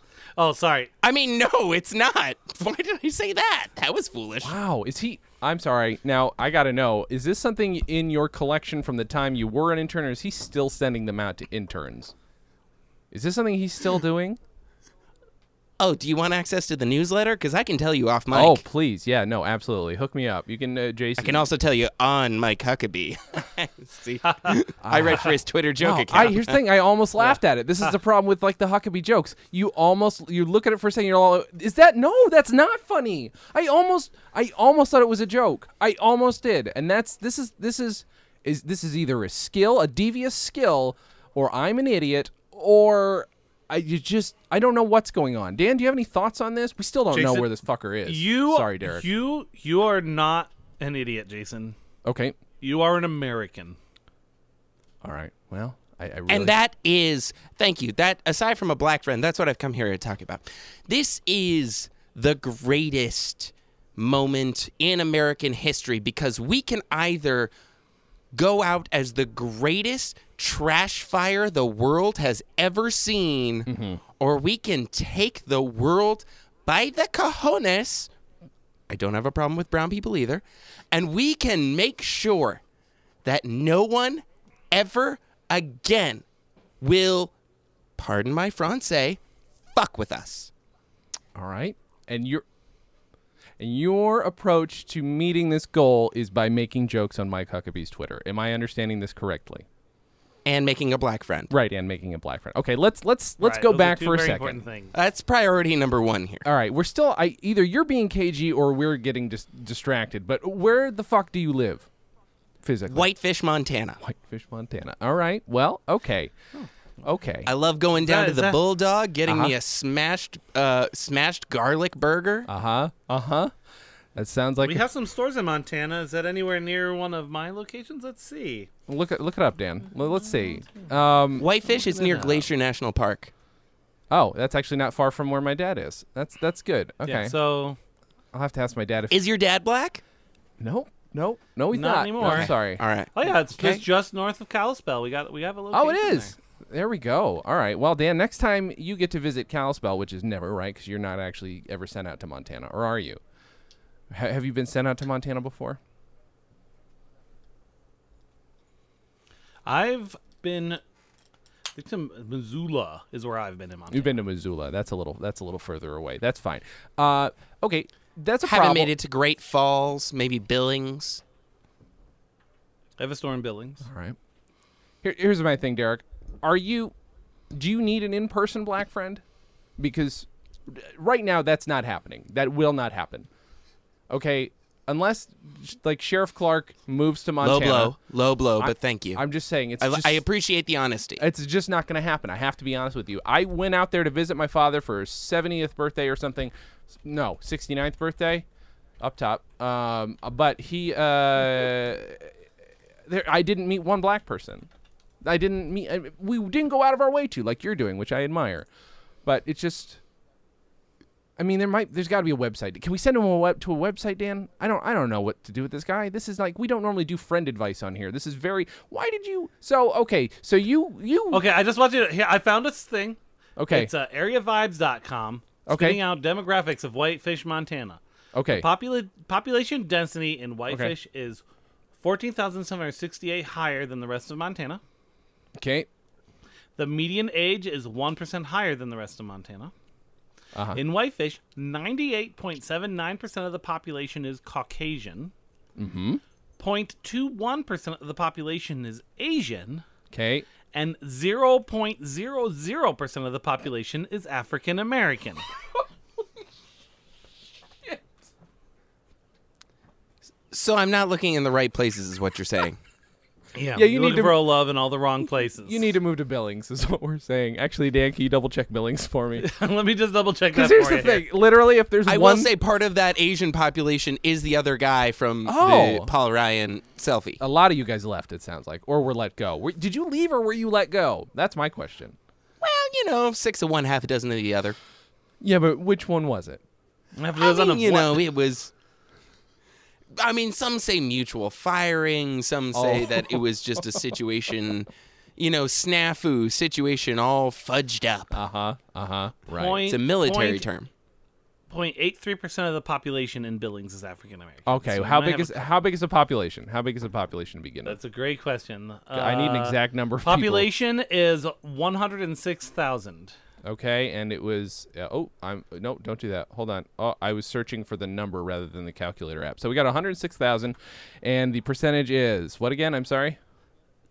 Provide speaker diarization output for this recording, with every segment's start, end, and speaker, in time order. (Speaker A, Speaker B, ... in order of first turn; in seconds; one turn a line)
Speaker A: 0.4-0.9
Speaker B: 1.0-4.5
Speaker C: 4.4-12.1
Speaker C: 13.1-14.4
Speaker B: 15.8-18.6
Speaker C: 18.3-21.5
Speaker B: 21.2-26.6
Speaker C: 24.8-49.0
Speaker A: 47.1-47.5
Speaker A: 48.0-51.8
Speaker C: 52.0-52.4
Speaker A: 52.6-53.8
Speaker C: 55.0-56.5
Speaker B: 56.3-67.5
Speaker B: 68.3-73.7
Speaker C: 73.7-74.0
Speaker B: 74.2-78.1
Speaker B: 78.9-82.6
Speaker B: 83.2-86.2
Speaker B: 86.8-87.3
Speaker B: 88.0-89.2
Speaker B: 89.7-90.5
Speaker C: 91.3-92.4
Speaker C: 93.6-99.7
Speaker B: 100.4-101.5
Speaker C: 101.5-104.6
Speaker A: 103.4-104.9
Speaker B: 104.9-106.4
Speaker C: 106.4-111.9
Speaker C: 112.6-113.1
Speaker B: 112.9-114.0
Speaker C: 114.0-116.3
Speaker C: 117.0-117.5
Speaker B: 117.5-122.5
Speaker A: 117.9-118.6
Speaker C: 119.2-119.5
Speaker C: 122.5-123.5
Speaker C: 124.1-124.8
Speaker A: 124.6-128.7
Speaker C: 128.9-131.5
Speaker B: 131.3-133.3
Speaker A: 132.1-132.4
Speaker C: 134.1-137.3
Speaker A: 137.0-137.8
Speaker C: 138.3-139.2
Speaker B: 139.1-140.0
Speaker C: 140.6-142.8
Speaker A: 141.7-142.5
Speaker B: 142.2-143.8
Speaker A: 143.1-146.3
Speaker C: 145.7-153.2
Speaker C: 154.1-155.8
Speaker A: 159.7-160.8
Speaker A: 161.7-164.1
Speaker C: 163.9-168.9
Speaker B: 168.4-171.2
Speaker A: 173.0-173.8
Speaker C: 173.8-174.2
Speaker C: 175.0-176.9
Speaker C: 177.5-179.2
Speaker C: 179.8-183.3
Speaker C: 184.1-187.9
Speaker B: 187.4-189.2
Speaker C: 188.6-190.2
Speaker B: 189.8-191.2
Speaker C: 191.2-196.5
Speaker C: 197.0-198.4
Speaker C: 199.0-202.3
Speaker C: 203.1-204.7
Speaker C: 205.2-208.7
Speaker C: 209.2-210.0
Speaker C: 211.4-221.4
Speaker A: 221.3-223.2
Speaker C: 223.6-223.9
Speaker A: 223.7-231.4
Speaker C: 225.7-226.0
Speaker C: 228.3-228.7
Speaker C: 230.7-230.9
Speaker A: 232.0-234.8
Speaker C: 235.6-235.9
Speaker A: 236.8-239.7
Speaker C: 240.5-240.8
Speaker A: 240.7-245.3
Speaker C: 245.8-246.2
Speaker A: 246.6-249.8
Speaker C: 250.1-250.4
Speaker A: 250.7-255.4
Speaker B: 260.5-262.8
Speaker A: 263.6-265.9
Speaker C: 263.7-264.5
Speaker C: 265.6-269.5
Speaker A: 269.4-271.2
Speaker C: 270.5-272.5
Speaker B: 272.1-277.4
Speaker C: 275.4-276.1
Speaker C: 277.4-282.2
Speaker B: 282.6-284.8
Speaker C: 285.4-286.6
Speaker A: 287.1-288.2
Speaker B: 287.4-288.7
Speaker B: 290.1-298.4
Speaker C: 292.7-294.0
Speaker C: 298.3-299.9
Speaker A: 299.5-300.6
Speaker B: 299.9-300.9
Speaker A: 301.7-305.6
Speaker C: 304.6-308.0
Speaker A: 307.8-313.3
Speaker C: 309.1-310.7
Speaker C: 313.6-323.4